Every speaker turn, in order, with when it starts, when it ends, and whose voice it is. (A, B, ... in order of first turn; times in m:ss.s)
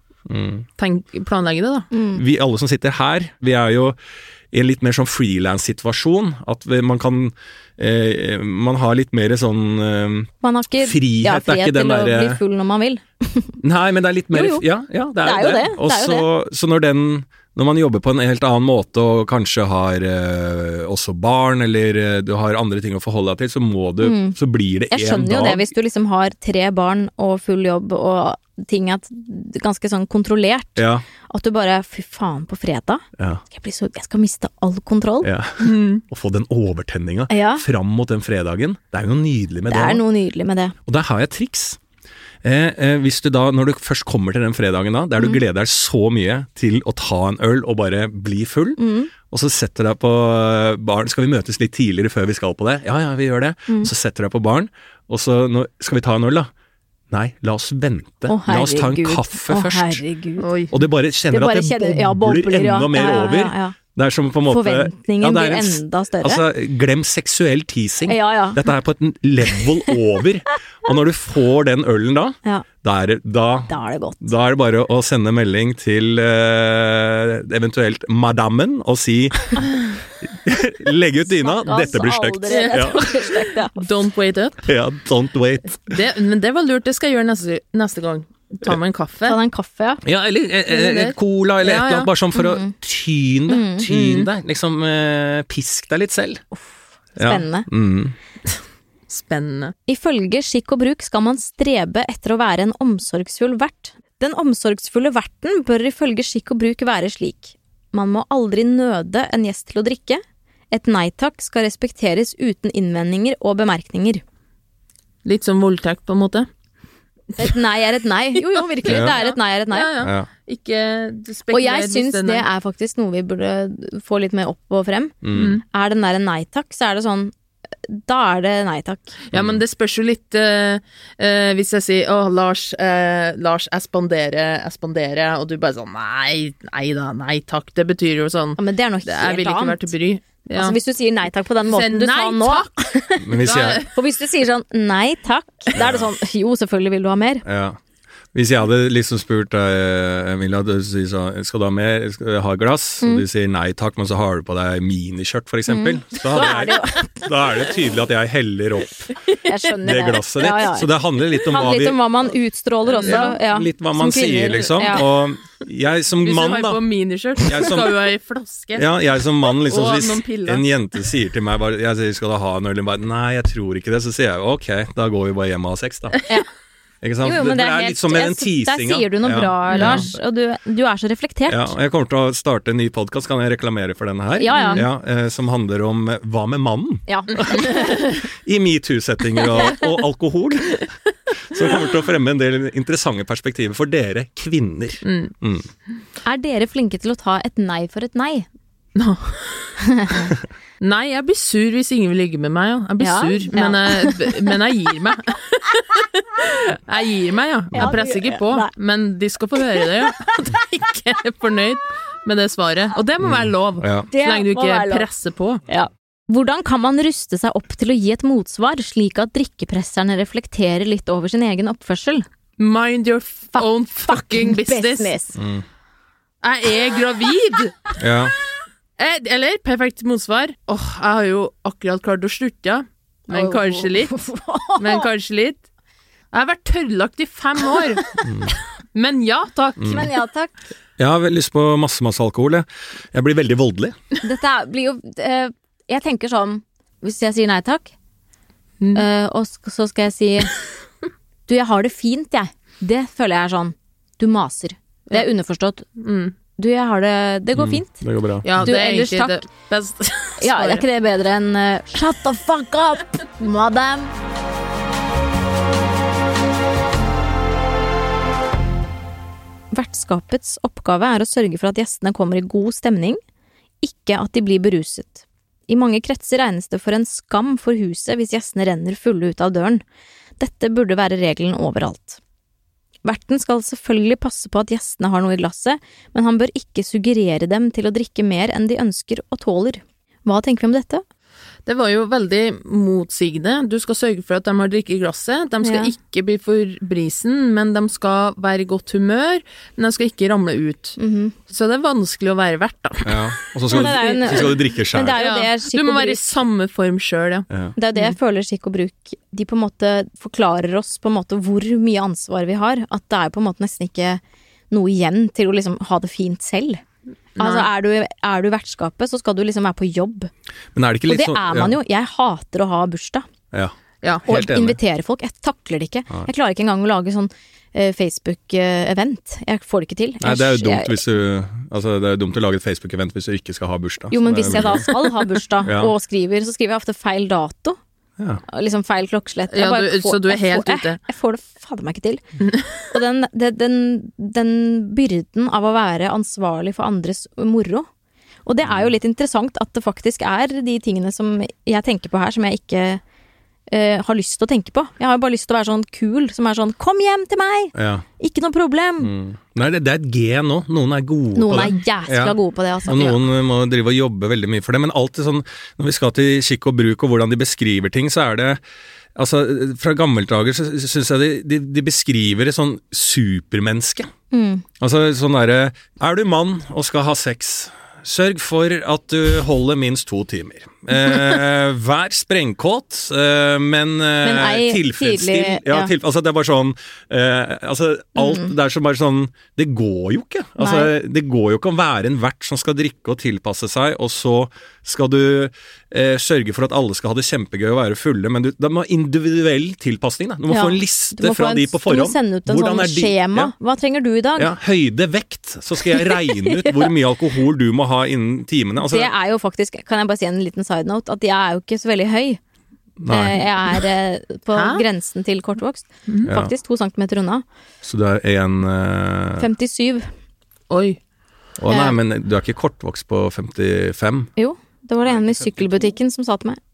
0:00.3-0:00.6 A
0:00.8-0:01.9 B
0:01.9-0:02.2 C
0:02.1-0:04.0 A
0:04.5-0:12.4 A
0:10.4-0:13.6 C
0:13.6-0:25.7 A
0:14.3-0:14.6 C
0:15.2-0:16.3 C
0:24.0-0:24.4 C
0:24.9-0:35.3 C
0:30.8-0:31.0 A
0:35.2-0:40.0 A
0:35.6-0:36.0 B
0:37.3-0:37.6 C
0:39.7-0:40.7 C
0:40.8-0:41.8 A
0:42.4-0:56.5 A
0:48.8-0:49.1 C
0:57.1-1:00.0 A
0:58.3-1:00.5 C
1:00.4-1:00.7 B
1:00.7-1:23.1 A
1:01.3-1:03.7 C
1:04.5-1:06.4 C
1:08.1-1:08.6 C
1:13.7-1:14.3 C
1:21.2-1:23.9 C
1:22.5-1:24.7 B
1:24.6-1:26.0 A
1:25.8-1:29.4 B
1:29.2-1:30.0 C
1:30.0-1:36.4 A
1:30.7-1:32.1 B
1:32.3-1:32.7 C
1:33.5-1:33.9 C
1:33.8-1:34.3 B
1:37.2-1:37.7 C
1:37.2-1:38.1 A
1:39.1-1:39.7 B
1:39.9-1:54.2 C
1:55.2-1:56.5 B
1:57.4-1:59.9 C
1:58.5-2:02.4 B
1:58.8-1:59.1 A
2:00.0-2:00.3 A
2:01.5-2:05.2 C
2:05.2-2:05.6 A
2:05.3-2:05.6 B
2:05.7-2:07.3 C
2:07.9-2:09.1 C
2:09.3-2:20.8 B
2:09.3-2:09.6 A
2:18.6-2:19.9 C
2:20.5-2:27.4 C
2:21.6-2:22.7 B
2:23.2-2:23.8 A
2:23.3-2:23.9 B
2:25.7-2:26.1 A
2:27.4-2:27.8 A
2:28.3-2:39.1 A
2:35.7-2:37.3 C
2:39.3-2:45.0 C
2:39.8-2:42.0 A
2:42.9-2:43.4 B
2:43.0-2:46.8 A
2:46.2-2:48.9 B
2:47.4-2:47.9 A
2:48.7-2:56.2 A
2:49.6-2:50.6 B
2:57.0-3:00.1 A
2:57.2-3:01.7 C
2:59.7-3:00.1 B
3:01.5-3:10.9 A
3:04.4-3:04.8 C
3:04.6-3:04.8 B
3:07.1-3:08.2 C
3:09.5-3:09.9 C
3:11.4-3:15.7 A
3:15.0-3:15.3 B
3:16.2-3:18.5 C
3:18.9-3:19.8 B
3:19.8-3:20.3 C
3:20.8-3:35.6 B
3:23.0-3:24.5 C
3:27.7-3:28.7 C
3:29.7-3:30.6 C
3:33.2-3:34.1 A
3:34.1-3:35.1 C
3:35.7-3:42.2 C
3:42.6-3:45.1 B
3:43.6-3:45.4 C
3:45.4-3:45.6 A
3:46.4-3:47.9 B
3:48.0-3:48.3 A
3:49.0-3:54.2 B
3:53.3-3:55.0 C
3:54.8-3:55.6 B
3:56.3-3:58.2 B
3:58.2-3:58.5 A
3:58.9-4:00.1 B
3:59.8-4:00.1 A
3:59.9-4:00.5 C
4:01.0-4:04.0 A
4:04.2-4:07.9 C
4:08.8-4:09.0 B
4:08.9-4:10.6 C
4:11.5-4:15.8 C
4:16.0-4:16.3 B
4:16.6-4:18.0 C
4:17.5-4:18.5 A
4:18.4-4:20.8 B
4:18.5-4:19.4 C
4:20.4-4:24.1 C
4:29.7-4:33.2 C
4:33.8-4:39.8 C
4:40.4-4:42.2 C
4:43.0-4:51.0 C
4:51.6-5:01.0 B
4:55.6-4:55.9 C
5:01.0-5:01.3 C
5:01.5-5:04.6 B
5:03.0-5:05.2 A
5:03.7-5:06.2 C
5:05.1-5:08.1 B
5:07.8-5:16.8 C
5:17.4-5:17.7 B
5:17.4-5:20.3 C
5:20.7-5:21.7 A
5:21.1-5:23.2 C
5:23.5-5:24.8 A
5:24.2-5:31.0 C
5:30.2-5:34.9 A
5:34.1-5:37.8 C
5:35.6-5:35.9 A
5:38.5-5:42.2 C
5:39.5-5:41.0 B
5:42.9-5:47.9 C
5:48.4-5:53.0 C
5:48.6-5:48.9 A
5:53.7-5:59.1 C
5:57.7-5:58.0 A
5:59.0-6:08.6 A
6:01.3-6:03.2 C
6:09.2-6:14.1 A
6:14.3-6:14.6 C
6:14.8-6:43.5 A
6:24.2-6:25.9 C
6:28.2-6:28.5 C
6:30.6-6:30.9 C
6:40.5-6:44.5 C
6:44.4-6:49.1 A
6:45.8-6:46.9 C
6:48.8-6:52.4 C
6:53.0-6:53.8 A
6:53.1-6:57.4 C
6:54.5-6:54.8 B
6:56.2-6:56.5 A
6:57.8-6:59.5 A
6:59.4-7:00.1 C
7:00.7-7:01.0 B
7:01.6-7:04.3 A
7:01.7-7:02.0 C
7:04.4-7:06.6 C
7:05.1-7:05.7 A